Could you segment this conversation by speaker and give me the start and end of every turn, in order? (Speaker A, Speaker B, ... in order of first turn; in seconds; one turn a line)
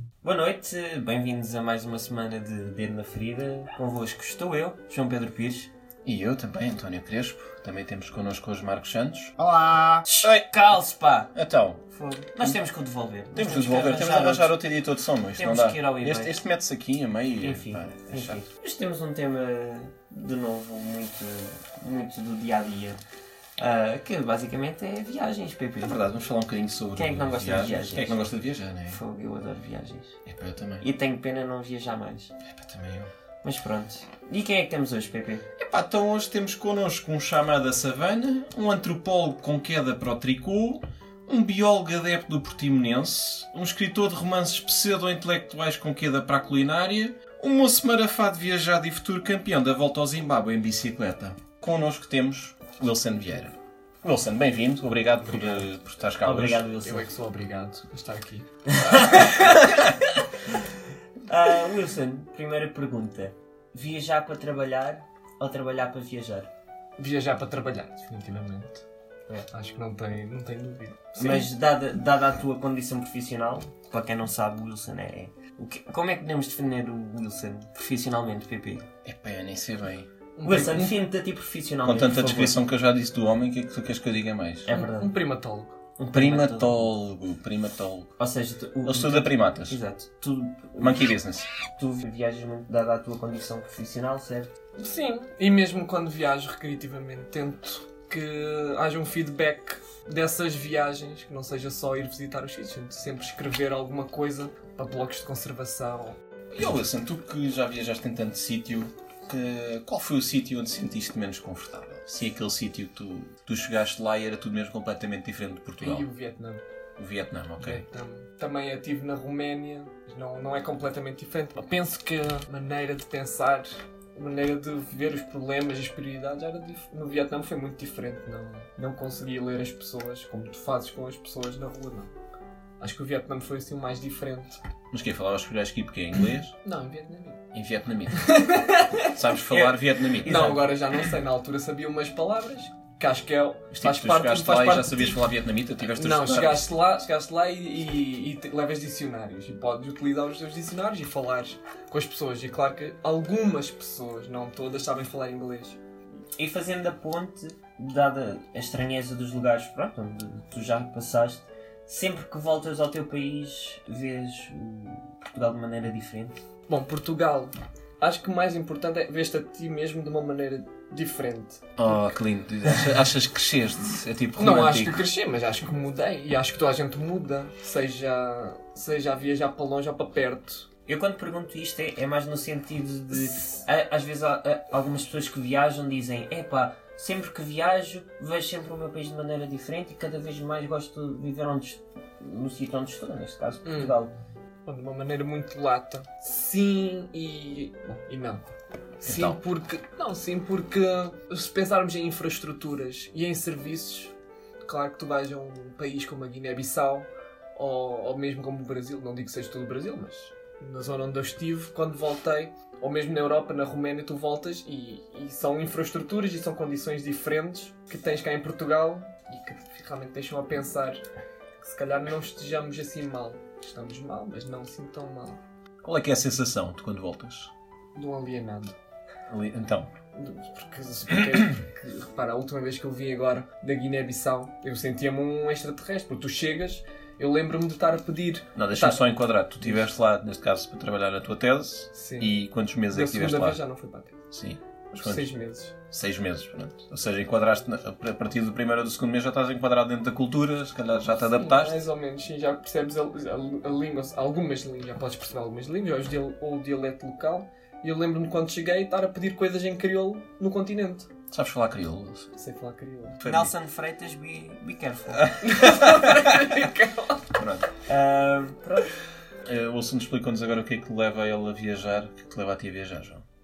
Speaker A: 0.2-5.7
Speaker B: 6.0-9.3
Speaker A: 9.4-11.3
Speaker B: 10.2-10.6
Speaker B: 11.3-11.8
Speaker A: 11.9-14.5
Speaker B: 13.3-18.4
Speaker A: 15.3-16.4
Speaker A: 17.4-23.0
Speaker A: 23.6-26.0
Speaker B: 25.8-29.0
Speaker A: 26.9-28.4
Speaker A: 28.9-30.2
Speaker B: 30.3-30.9
Speaker A: 30.8-32.3
Speaker B: 32.4-33.1
Speaker A: 33.4-35.4
Speaker B: 35.6-57.0
Speaker A: 56.2-57.0
Speaker C: 56.8-59.4
Speaker A: 58.9-59.5
Speaker A: 61.2-66.5
Speaker C: 67.0-68.8
Speaker C: 69.4-71.5
Speaker A: 71.2-78.9
Speaker B: 79.0-80.1
Speaker C: 80.3-80.9
Speaker A: 80.4-82.6
Speaker B: 81.8-84.7
Speaker A: 84.6-85.2
Speaker C: 84.7-85.8
Speaker A: 86.0-86.9
Speaker B: 86.1-88.2
Speaker A: 88.2-91.1
Speaker B: 88.8-89.8
Speaker B: 90.8-91.5
Speaker A: 91.8-94.5
Speaker C: 94.8-106.2
Speaker B: 106.5-116.1
Speaker C: 115.8-116.6
Speaker B: 117.0-117.8
Speaker C: 117.6-132.1
Speaker C: 132.8-134.6
Speaker B: 134.9-136.5
Speaker C: 136.6-137.4
Speaker B: 137.5-140.6
Speaker C: 138.1-145.2
Speaker A: 140.2-140.7
Speaker B: 143.7-146.7
Speaker C: 145.9-155.8
Speaker A: 156.4-166.4
Speaker C: 166.7-172.1
Speaker B: 171.8-175.1
Speaker C: 174.3-180.7
Speaker A: 180.9-194.1
Speaker C: 193.6-193.9
Speaker C: 194.7-221.0
Speaker B: 199.1-199.4
Speaker C: 221.6-225.4
Speaker B: 225.8-227.5
Speaker C: 227.9-228.8
Speaker B: 229.3-229.9
Speaker C: 230.1-239.8
Speaker B: 238.5-243.6
Speaker C: 241.9-242.3
Speaker C: 242.9-244.1
Speaker B: 244.3-245.3
Speaker C: 244.9-245.7
Speaker B: 245.9-251.8
Speaker C: 251.1-261.1
Speaker B: 261.3-262.3
Speaker C: 262.3-263.2
Speaker B: 263.2-263.5
Speaker A: 263.2-265.3
Speaker B: 265.3-266.5
Speaker C: 265.4-267.3
Speaker B: 267.3-267.7
Speaker A: 267.9-268.9
Speaker B: 269.4-273.2